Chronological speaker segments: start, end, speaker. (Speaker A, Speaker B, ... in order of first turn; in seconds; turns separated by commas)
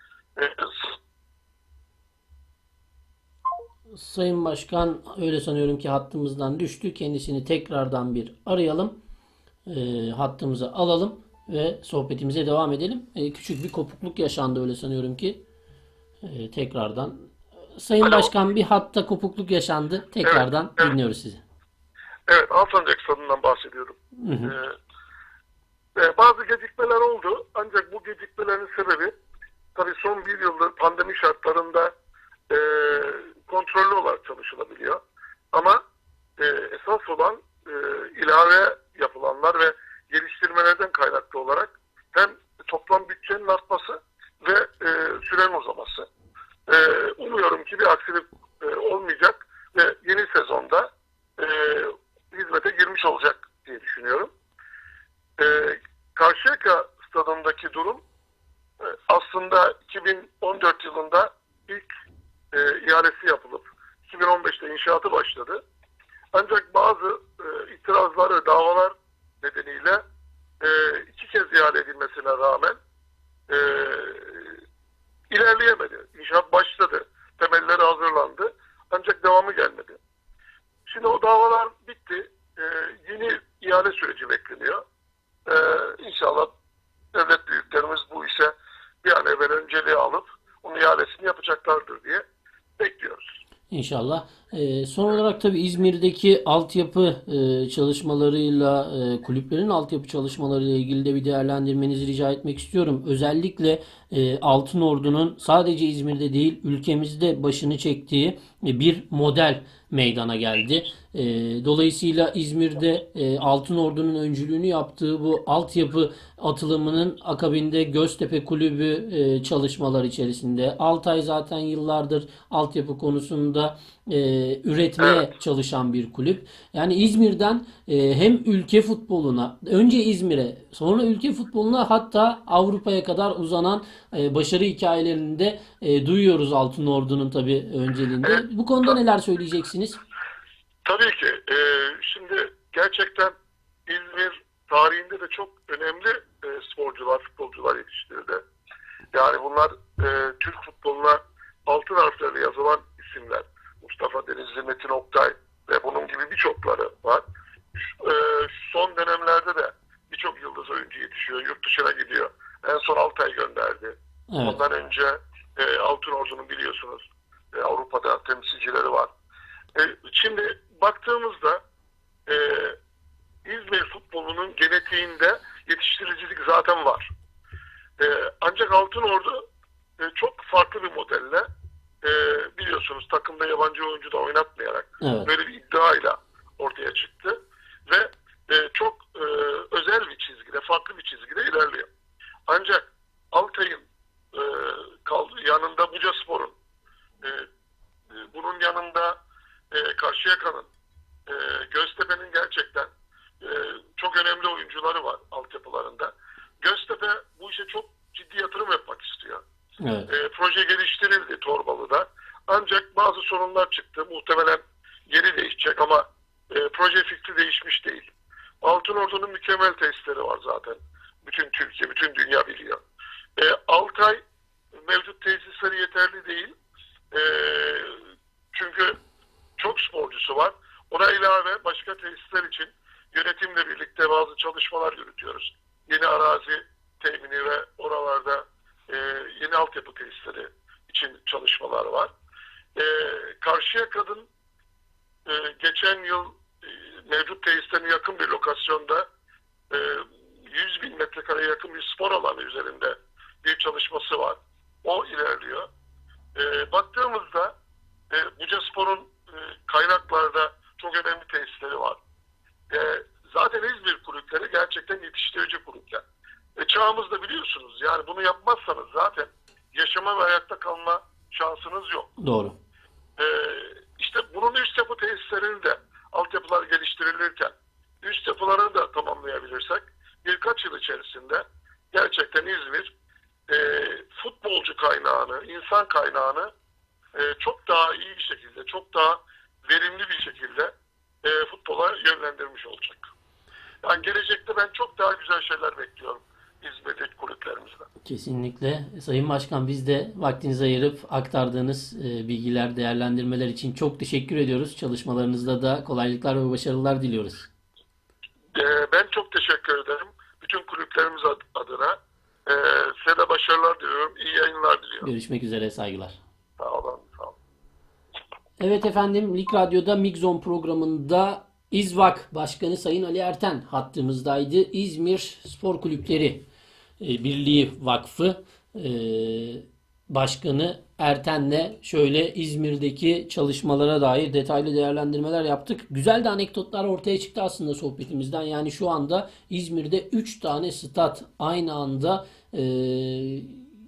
Speaker A: 0.4-1.0, Speaker B: 3.9-9.0, Speaker B: 9.7-15.4, Speaker B: 16.2-21.4, Speaker A: 18.0-18.3, Speaker A: 20.2-20.9, Speaker A: 22.3-24.8, Speaker B: 24.2-24.5, Speaker A: 26.0-29.1, Speaker A: 29.8-31.9, Speaker A: 32.5-35.0, Speaker A: 35.5-35.8, Speaker A: 36.4-46.1, Speaker A: 46.7-54.3, Speaker A: 55.4-58.0, Speaker A: 58.8-61.9, Speaker A: 62.5-65.6, Speaker A: 66.3-70.0, Speaker A: 70.6-72.8, Speaker A: 73.5-74.6, Speaker A: 75.3-80.0, Speaker A: 80.9-84.8, Speaker A: 85.5-86.5, Speaker A: 87.1-92.2, Speaker A: 92.8-93.4, Speaker B: 93.7-140.0, Speaker A: 125.0-125.3, Speaker A: 138.2-138.9, Speaker A: 140.8-143.3, Speaker A: 143.9-148.4, Speaker A: 149.1-157.2, Speaker A: 157.8-169.1, Speaker B: 164.3-164.6, Speaker A: 169.8-171.6, Speaker A: 172.3-172.8, Speaker A: 173.4-177.1, Speaker A: 178.0-179.4, Speaker A: 180.0-181.5, Speaker A: 182.0-191.9, Speaker B: 185.0-185.3, Speaker A: 192.5-196.6, Speaker A: 197.2-197.5, Speaker A: 198.1-199.2, Speaker A: 199.7-200.7, Speaker A: 201.3-202.9, Speaker A: 203.4-209.4, Speaker B: 209.8-210.1, Speaker A: 210.1-218.1, Speaker A: 218.6-222.8, Speaker A: 223.4-224.2, Speaker A: 224.8-226.5, Speaker A: 227.1-229.0, Speaker A: 229.6-242.1, Speaker A: 242.8-244.3, Speaker A: 245.3-249.1, Speaker A: 249.7-255.7, Speaker A: 256.4-257.5, Speaker A: 258.1-262.0, Speaker A: 262.7-266.0, Speaker A: 266.6-272.1, Speaker B: 272.2-272.6, Speaker A: 273.2-282.9, Speaker A: 283.5-286.5, Speaker A: 287.1-290.7, Speaker A: 291.2-293.1, Speaker A: 293.8-297.9, Speaker B: 298.1-307.5, Speaker A: 308.6-315.1, Speaker B: 315.0-316.2, Speaker A: 316.6-317.4, Speaker B: 318.6-326.4, Speaker B: 327.0-343.6